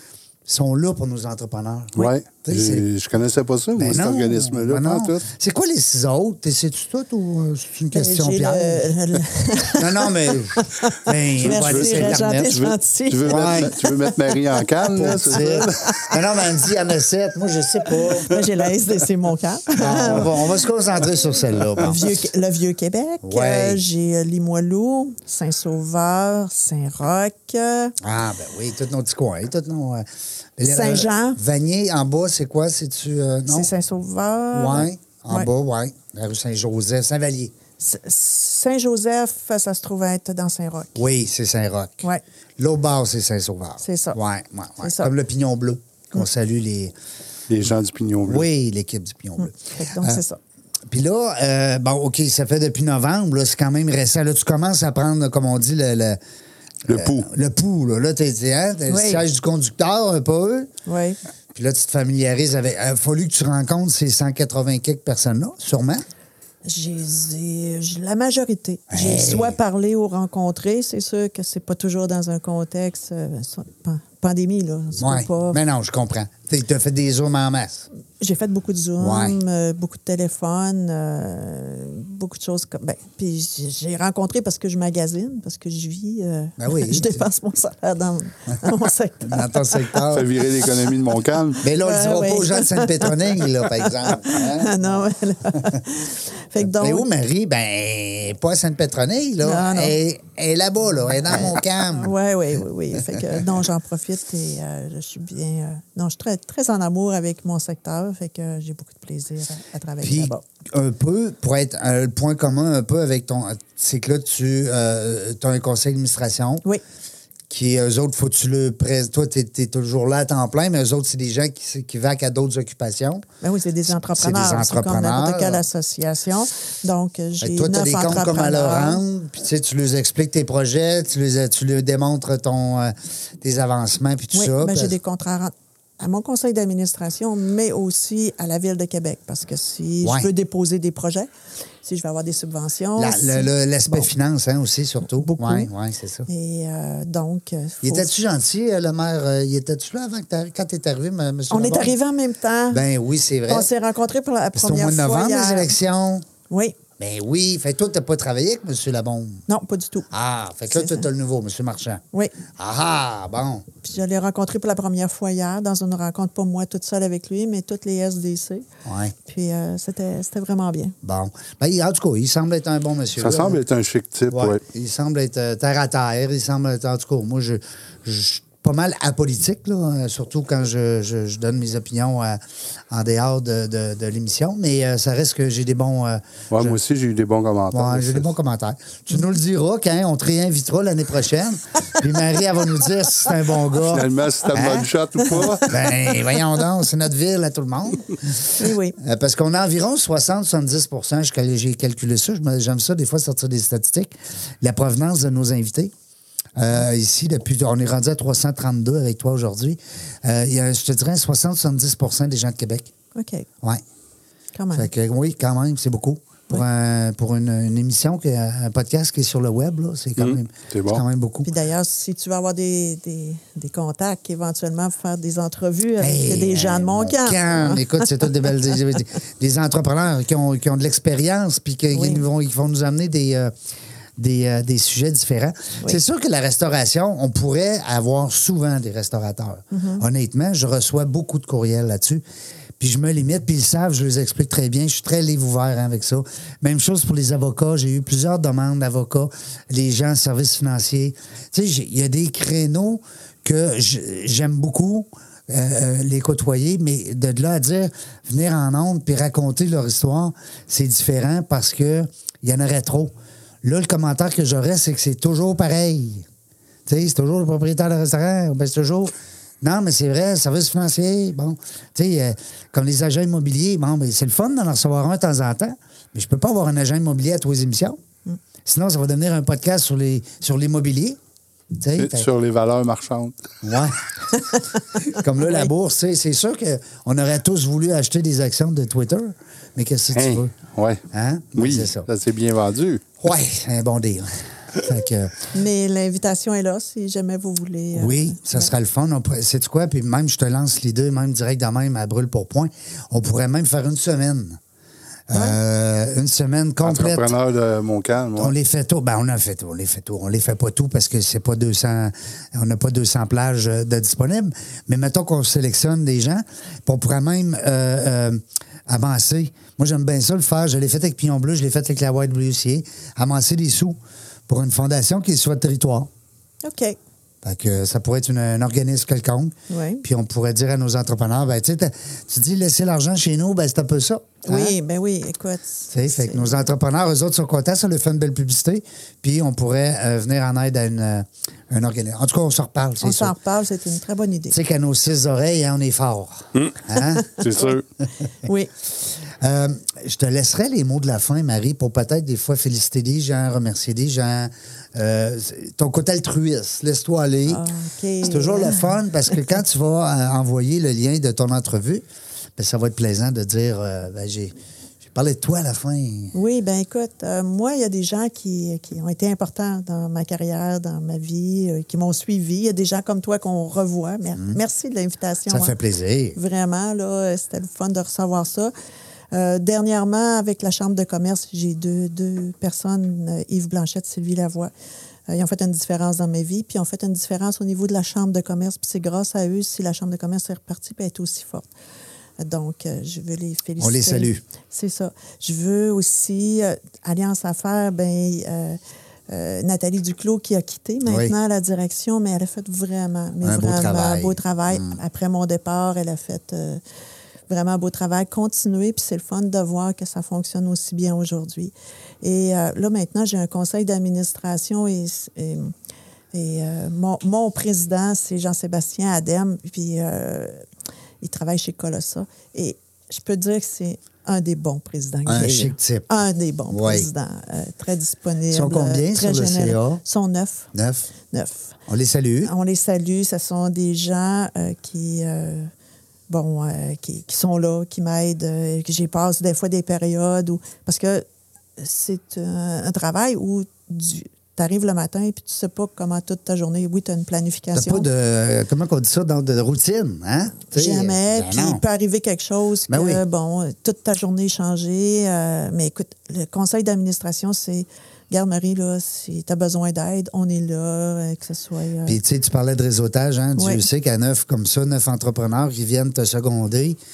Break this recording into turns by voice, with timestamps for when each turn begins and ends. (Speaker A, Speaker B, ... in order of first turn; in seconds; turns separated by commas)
Speaker A: 0.5-2.9, Speaker B: 2.0-5.2, Speaker A: 3.8-8.9, Speaker C: 7.9-16.2, Speaker A: 9.7-12.6, Speaker B: 11.4-15.9, Speaker A: 13.2-13.8, Speaker A: 14.9-18.3, Speaker C: 18.2-20.4, Speaker A: 19.8-22.2, Speaker C: 21.8-27.9, Speaker A: 23.2-23.8, Speaker A: 28.0-30.1, Speaker A: 30.6-33.7, Speaker C: 30.6-31.4, Speaker C: 33.5-35.5, Speaker A: 34.5-37.5, Speaker C: 37.8-41.0, Speaker A: 41.0-42.0, Speaker A: 42.6-46.9, Speaker C: 43.8-44.2, Speaker C: 44.8-45.1, Speaker B: 47.5-48.5, Speaker A: 48.2-50.2, Speaker C: 49.4-50.4, Speaker A: 50.9-56.2, Speaker B: 56.9-57.3, Speaker A: 56.9-60.7, Speaker C: 58.9-59.3, Speaker C: 60.9-61.2, Speaker A: 61.5-66.0, Speaker C: 66.7-75.6, Speaker A: 68.9-69.6, Speaker A: 75.0-77.9, Speaker C: 78.2-90.0, Speaker A: 79.0-79.4, Speaker A: 86.6-87.2, Speaker A: 89.2-90.3, Speaker B: 90.1-91.6, Speaker A: 91.6-95.0, Speaker C: 91.8-97.1, Speaker A: 96.6-102.1, Speaker C: 99.4-100.0, Speaker C: 101.2-110.4, Speaker A: 110.0-116.7, Speaker A: 117.5-123.3, Speaker C: 123.4-129.0, Speaker A: 124.0-125.6, Speaker A: 127.4-135.0, Speaker C: 134.3-141.3, Speaker A: 140.0-140.3, Speaker C: 141.8-144.1, Speaker A: 143.0-146.3, Speaker C: 145.2-145.7, Speaker C: 146.3-148.1, Speaker A: 147.8-152.0, Speaker C: 151.5-152.8, Speaker A: 152.7-153.7, Speaker C: 153.5-155.7, Speaker A: 154.5-156.3, Speaker C: 156.5-156.8, Speaker A: 157.0-159.5, Speaker C: 159.5-160.1, Speaker A: 160.1-162.0, Speaker C: 160.7-161.1, Speaker A: 162.6-163.7, Speaker C: 163.8-168.7, Speaker A: 168.8-169.2, Speaker C: 169.2-170.9, Speaker A: 171.0-173.6, Speaker B: 173.2-174.6, Speaker A: 174.3-186.8, Speaker B: 186.5-188.3, Speaker A: 187.7-194.9, Speaker B: 193.9-195.8, Speaker A: 195.7-205.9, Speaker C: 198.6-199.0, Speaker A: 206.6-212.9, Speaker C: 213.2-213.5, Speaker C: 214.6-214.9, Speaker A: 214.7-221.5, Speaker B: 220.2-221.0, Speaker C: 221.4-228.5, Speaker A: 226.0-233.5, Speaker C: 231.9-232.2, Speaker A: 234.2-242.2, Speaker C: 239.7-240.0, Speaker A: 242.8-266.3, Speaker A: 266.9-278.0, Speaker A: 278.6-281.2, Speaker A: 281.8-282.3, Speaker B: 282.0-283.4, Speaker A: 283.6-284.0, Speaker A: 285.1-290.5, Speaker C: 285.4-285.7, Speaker B: 290.1-291.0, Speaker A: 291.1-292.1, Speaker B: 291.6-293.1, Speaker A: 293.2-295.5, Speaker C: 295.5-298.7, Speaker A: 297.9-304.6, Speaker A: 305.3-307.3, Speaker B: 306.8-308.6, Speaker A: 308.4-324.0, Speaker A: 324.5-326.1, Speaker C: 326.6-327.0, Speaker A: 327.4-334.8, Speaker C: 329.7-330.0, Speaker C: 334.4-336.7, Speaker A: 335.9-343.4, Speaker C: 343.0-344.6, Speaker A: 344.5-347.7, Speaker B: 346.6-346.8, Speaker C: 347.0-347.4, Speaker B: 347.4-347.8, Speaker C: 348.4-348.7, Speaker A: 349.4-357.6, Speaker C: 357.5-359.4, Speaker A: 358.2-362.0, Speaker A: 362.6-366.4, Speaker C: 366.3-375.7, Speaker A: 375.5-376.4, Speaker C: 376.4-378.7, Speaker C: 379.3-384.7, Speaker C: 385.3-391.7, Speaker C: 392.4-398.8, Speaker A: 393.8-394.4, Speaker C: 399.3-406.8, Speaker A: 401.1-401.4, Speaker A: 403.4-405.0, Speaker C: 407.5-415.7, Speaker C: 416.3-420.6, Speaker C: 421.2-430.7, Speaker A: 425.3-426.1, Speaker A: 426.7-427.1, Speaker A: 428.5-430.0, Speaker A: 430.7-431.1, Speaker C: 431.3-431.8, Speaker A: 431.9-432.5, Speaker C: 432.4-435.7, Speaker C: 436.3-441.2, Speaker C: 441.8-448.1, Speaker A: 447.7-451.8, Speaker C: 450.7-462.2, Speaker A: 452.9-453.2, Speaker A: 462.1-467.0, Speaker C: 463.6-463.9